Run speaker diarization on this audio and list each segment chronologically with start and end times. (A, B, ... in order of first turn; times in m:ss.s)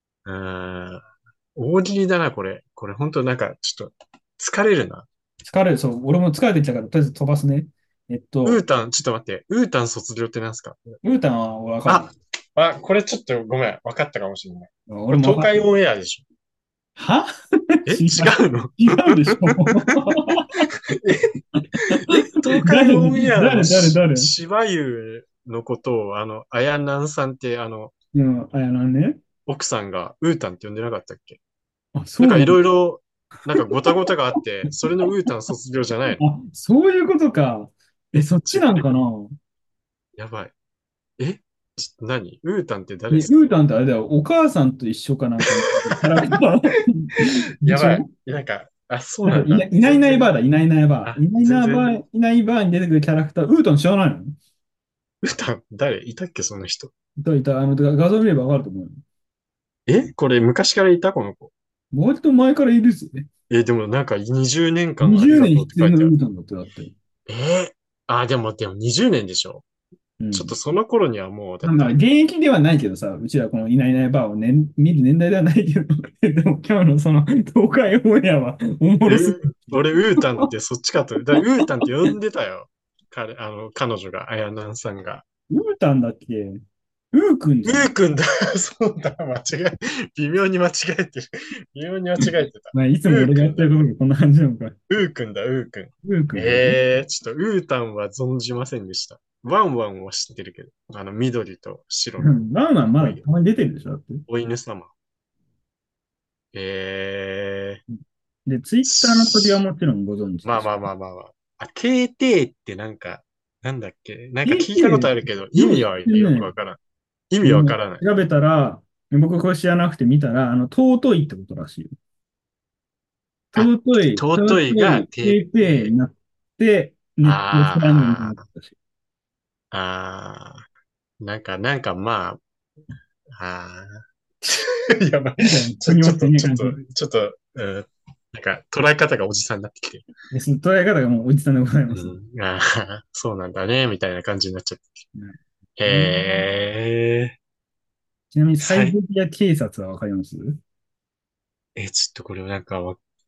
0:00.2-0:01.0 A
0:01.6-0:05.1 A
0:05.4-0:08.6 B
0:08.4-0:11.0 A
0:11.0-0:12.1 B
0:11.9-0:16.3 A
0:14.9-0:15.6 B
0:17.0-0:20.6 B
0:17.9-0:20.0 A
0:20.9-0:21.3 A
0:21.6-0:24.3 B
0:21.9-0:27.9 A
0:28.1-0:29.2 B
0:29.4-0:31.4 A
0:31.9-0:32.6 B
0:32.2-0:36.2 A
0:33.5-0:34.0 B
0:36.1-0:39.3 B
0:38.4-0:38.9 A
0:40.2-0:40.5 A
0:41.2-0:43.5 A
0:43.1-0:48.1 B
0:47.6-0:50.3 A
0:49.2-0:54.4 B
0:51.0-0:52.0 A
0:55.2-0:56.9 A
0:57.2-0:59.0 B
0:59.9-1:01.5 A
1:01.9-1:03.3 B
1:03.5-1:06.1 A
1:05.0-1:06.9 B
1:07.3-1:09.6 A
1:10.2-1:10.6 B
1:10.3-1:11.9 A
1:11.6-1:20.5 B
1:19.1-1:25.2 A
1:25.5-1:26.6 B
1:27.1-1:27.9 B
1:27.6-1:33.7 A
1:32.2-1:34.8 B
1:34.9-1:42.4 A
1:36.0-1:36.8 B
1:42.2-1:44.2 B
1:43.0-1:43.2 A
1:44.3-1:44.9 A
1:46.5-1:47.8 A
1:47.9-1:50.8 B
1:48.8-1:49.6 A
1:50.4-1:56.8 A
1:54.4-1:56.5 B
1:57.3-1:58.0 A
1:57.4-2:01.9 B
2:03.5-2:05.9 A
2:03.6-2:08.8 B
2:07.2-2:08.4 A
2:09.7-2:10.6 A
2:11.2-2:12.4 A
2:13.3-2:20.0 A
2:15.4-2:16.8 B
2:20.3-2:22.2 B
2:21.9-2:25.0 A
2:25.1-2:26.4 B
2:25.8-2:27.4 A
2:28.3-2:30.6 B
2:28.6-2:28.9 A
2:31.8-2:33.0 A